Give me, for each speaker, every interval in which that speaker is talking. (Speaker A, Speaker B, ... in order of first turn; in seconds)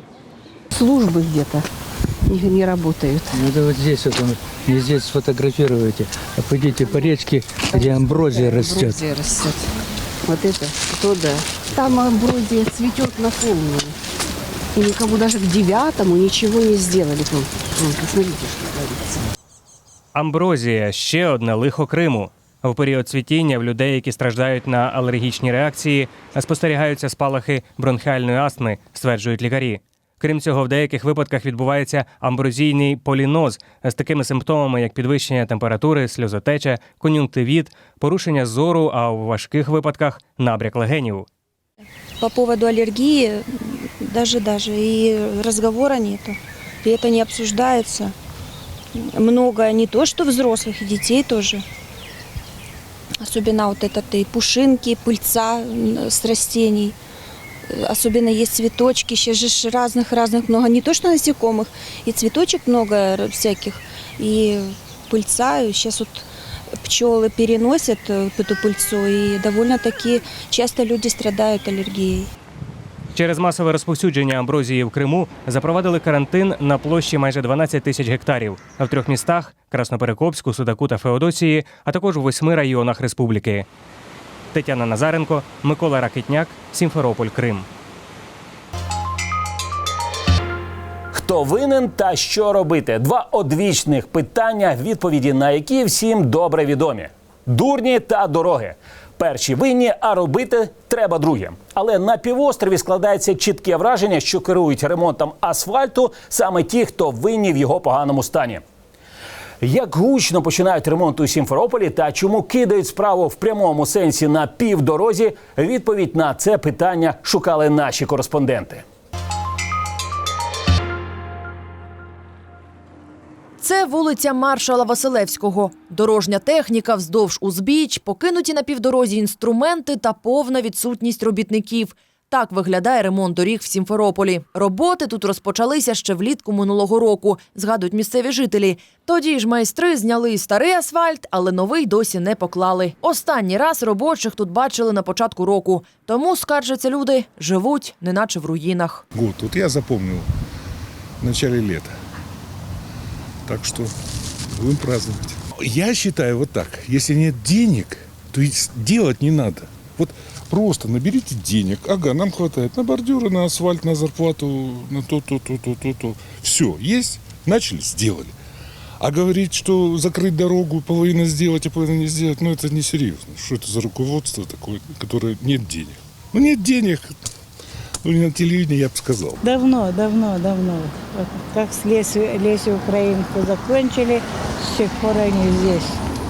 Speaker A: 0.7-1.6, 2.3-3.4, 7.6-9.7, 10.2-13.9, 14.7-19.2
Speaker B: 3.3-9.0
Speaker C: 20.1-41.2, 73.1-83.7, 84.5-87.7
Speaker D: 42.2-48.1, 49.0-51.6, 53.2-57.0, 57.7-66.3, 66.8-72.3
Speaker E: 91.1-108.6, 109.6-118.8
Speaker F: 123.6-149.1
Speaker G: 149.1-150.3, 151.2-152.0, 153.4-153.9, 154.6-168.3, 169.0-177.1, 178.0-179.4
Speaker H: 179.4-186.0